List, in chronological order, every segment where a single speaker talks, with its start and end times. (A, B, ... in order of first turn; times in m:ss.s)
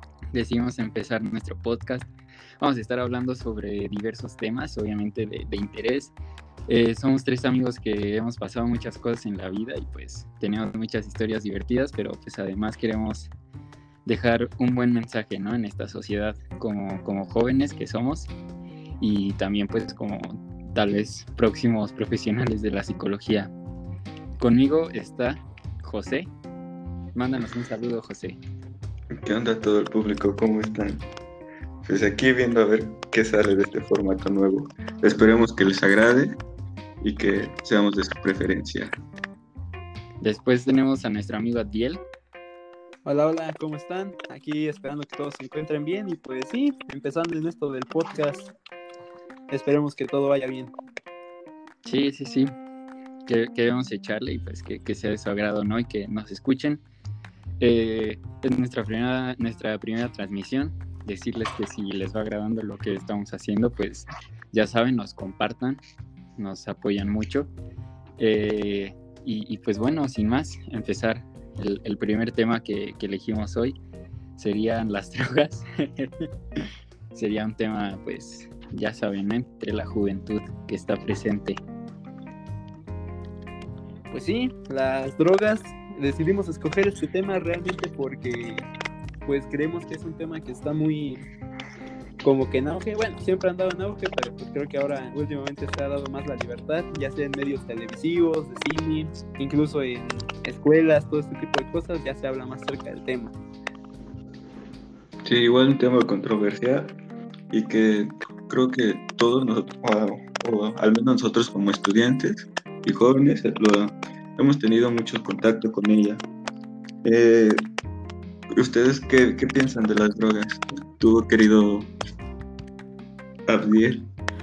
0:00.3-0:06.1 A
0:06.7-0:13.3 A
0:14.1-0:18.3 A
0:19.0-0:23.5 A
0:24.4-0:26.3 A
0:27.2-0:28.4 A
0:29.1-0:31.0 B
0:31.8-0:36.4 B
0:37.0-0:39.0 B
0:40.2-0:42.0 A
0:43.0-0:48.5 C
0:49.5-0:50.7 C
0:51.8-0:52.5 A
0:53.3-0:56.8 A
0:57.6-1:05.8 A
1:06.4-1:07.5 A
1:08.2-1:13.8 A
1:14.4-1:16.3 A
1:17.1-1:21.6 A
1:24.1-1:28.7 C
1:29.2-1:31.2 C
1:32.2-1:43.3 C
1:45.2-1:47.0 B
1:47.5-1:56.2 B
1:57.0-1:57.6 B
1:58.5-2:01.9 B
2:03.5-2:04.1 B